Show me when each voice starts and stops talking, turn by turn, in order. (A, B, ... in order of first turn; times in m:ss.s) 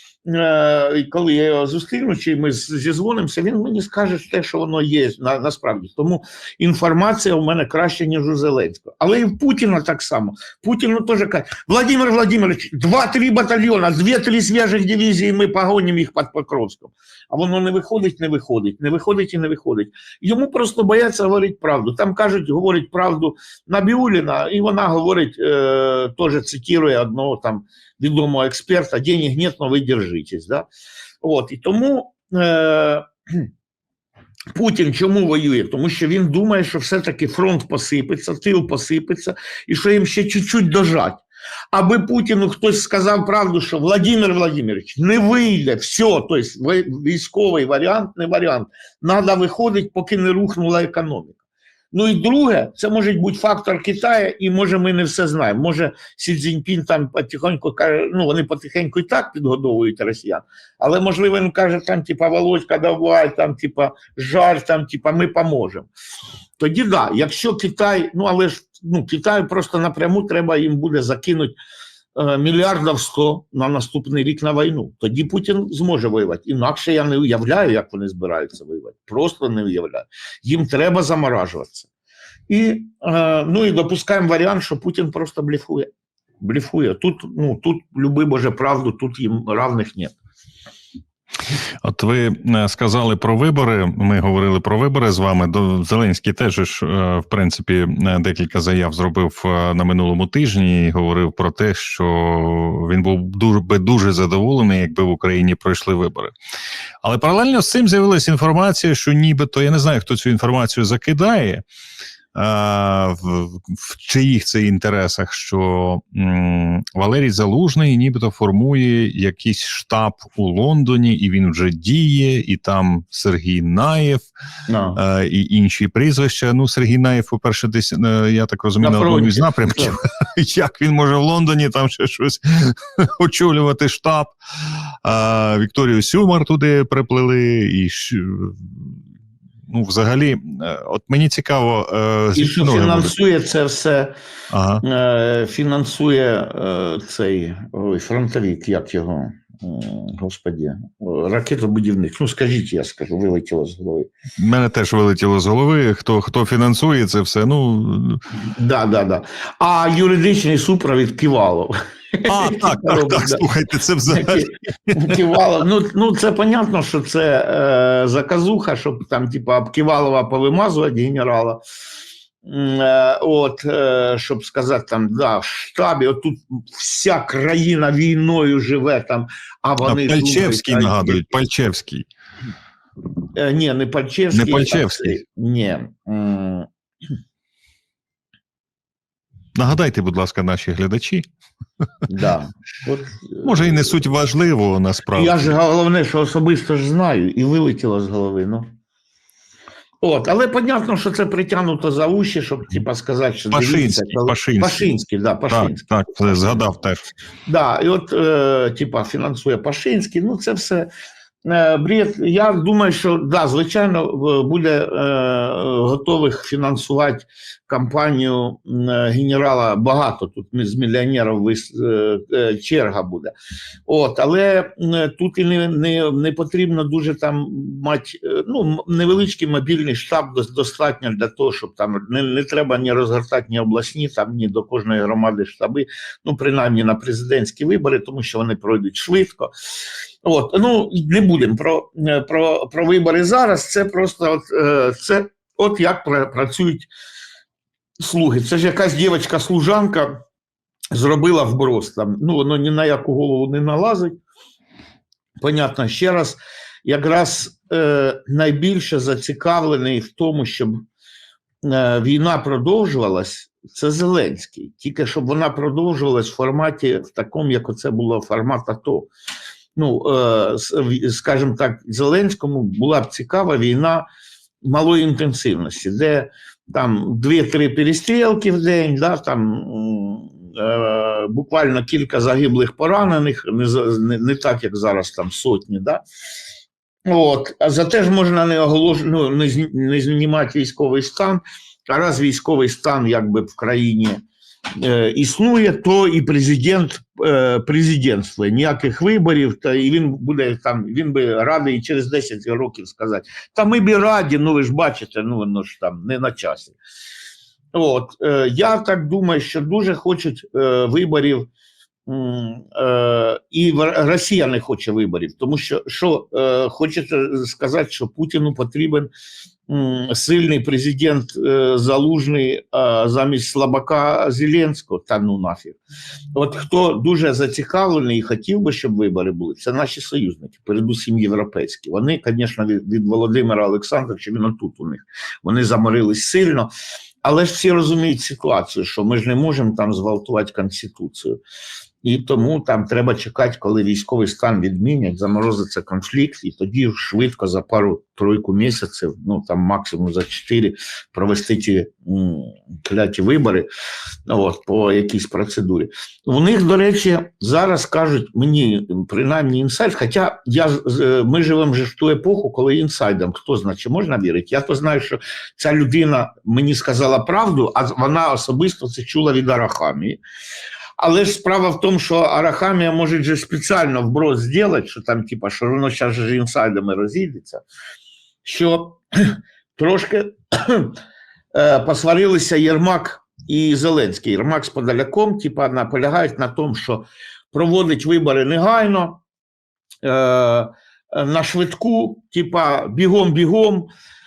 0:00.2-0:30.6 A
0:31.2-0:33.5 A
0:34.5-0:51.4 A
0:51.9-1:05.9 A
1:06.6-1:11.6 A
1:12.1-1:21.9 A
1:22.5-1:25.9 A
1:26.4-1:30.1 A
1:31.8-1:46.3 B
1:47.0-1:51.6 B
1:52.3-2:04.2 B
2:04.7-2:05.0 A
2:05.0-2:19.0 B
2:08.8-2:10.0 A
2:19.7-2:23.2 B
2:22.4-2:24.1 A
2:24.5-2:24.8 B
2:24.8-2:34.1 A
2:34.4-2:38.2 B
2:38.5-2:43.4 A
2:42.3-2:45.2 B
2:44.1-2:51.6 A
2:52.4-3:01.3 A
2:59.8-3:02.1 B
3:03.3-3:06.7 A
3:04.3-3:05.2 B
3:09.5-3:11.3 B
3:12.1-3:14.1 A
3:13.4-3:15.6 B
3:15.1-3:18.7 A
3:20.0-3:26.6 A
3:23.5-3:24.9 B
3:25.5-3:27.0 B
3:27.5-3:30.9 A
3:31.4-3:43.3 A
3:43.9-3:59.5 A
4:00.2-4:06.9 A
4:08.0-4:10.2 A
4:10.9-4:14.2 A
4:15.4-4:20.8 A
4:21.6-4:29.1 A
4:29.8-4:34.0 A
4:34.6-4:46.0 A
4:47.1-4:54.2 A
4:54.8-5:06.8 A
5:07.7-5:11.5 A
5:12.1-5:19.1 A
5:19.7-5:25.8 A
5:26.3-5:36.7 A
5:37.2-5:41.4 A
5:42.0-5:53.7 A
5:54.3-6:10.2 A
6:11.0-6:17.6 A
6:18.4-6:21.0 A
6:21.5-6:29.2 A
6:30.0-6:33.9 A